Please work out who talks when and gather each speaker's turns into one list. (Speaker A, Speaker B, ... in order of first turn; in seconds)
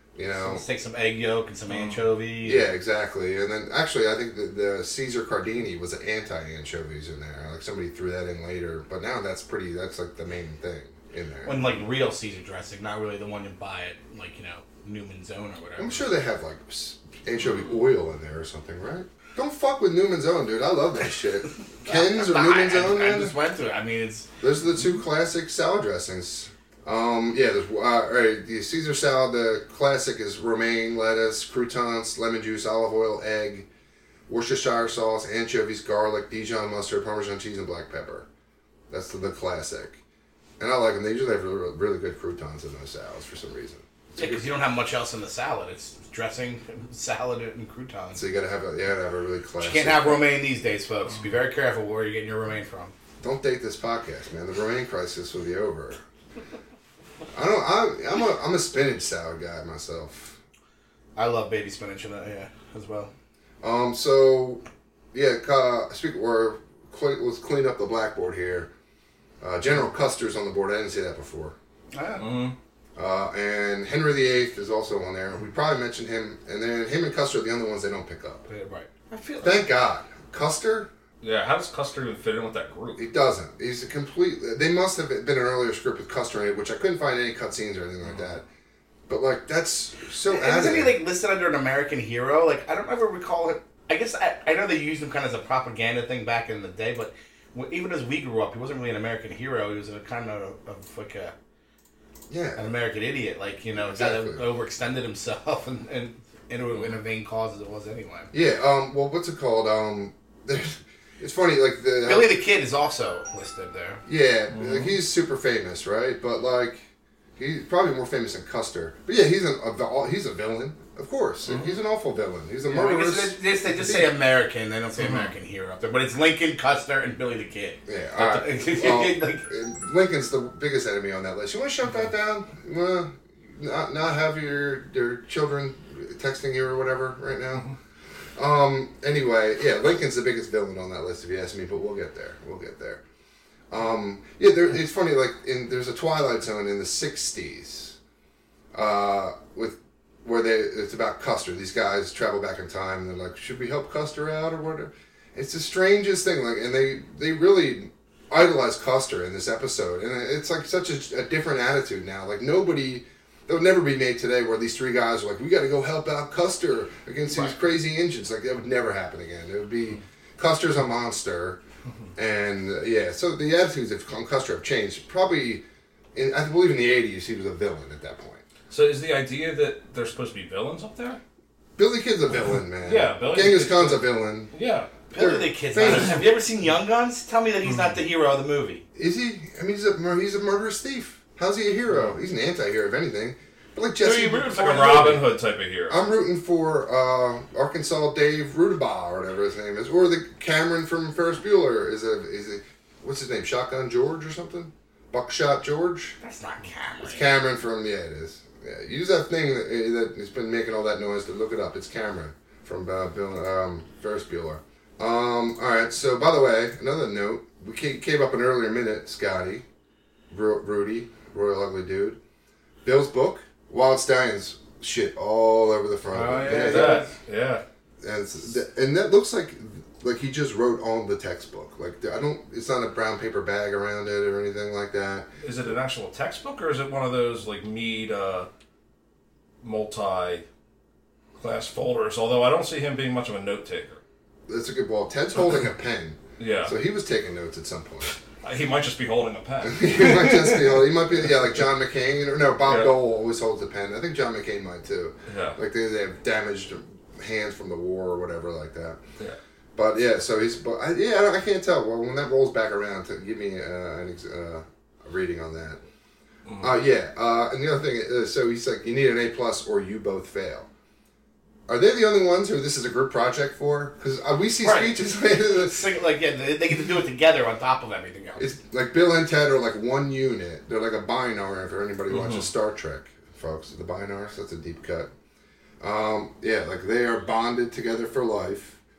Speaker A: 0.1-0.6, 2.4-11.6, 15.8-23.3, 24.4-33.7, 34.3-38.3, 38.9-40.0, 40.6-44.4, 48.1-50.2, 53.2-56.0, 57.3-60.4, 63.6-68.7, 69.4-71.5, 73.0-78.4, 79.4-80.9, 83.0-88.4, 89.1-91.0, 102.3-102.6, 103.8-104.4, 108.3-112.4, 114.0-116.8, 117.4-124.1, 127.9-137.7, 138.3-143.0, 143.7-148.0, 148.7-171.6, 172.2-178.4, 181.8-184.5, 185.1-186.3, 188.9-195.2, 195.9-206.2, 207.0-219.6, 220.3-222.2, 222.8-227.1, 228.0-235.3, 244.5-248.2, 249.6-259.0, 259.7-265.8, 266.6-270.7, 271.7-275.9, 278.4-285.1, 285.8-288.8
Speaker B: 0.4-2.7, 11.4-16.1, 21.8-24.3, 44.2-48.2, 49.6-52.9, 61.1-63.1, 71.9-72.3, 78.5-79.7, 90.3-101.3, 102.5-108.3, 112.0-114.0, 122.7-129.5, 185.1-188.8, 194.1-195.2, 206.2-207.3, 226.1-227.1, 274.6-278.5
Speaker C: 1.7-2.0, 72.2-72.5, 81.2-83.0, 114.5-115.0, 121.5-121.8, 125.0-125.3, 178.7-181.2, 182.8-184.9, 194.1-196.0, 226.5-227.6, 235.4-238.5, 239.6-240.4, 241.4-244.0, 246.4-246.7, 248.4-250.9, 252.6-252.9, 255.3-255.6, 266.4-266.8, 282.1-282.5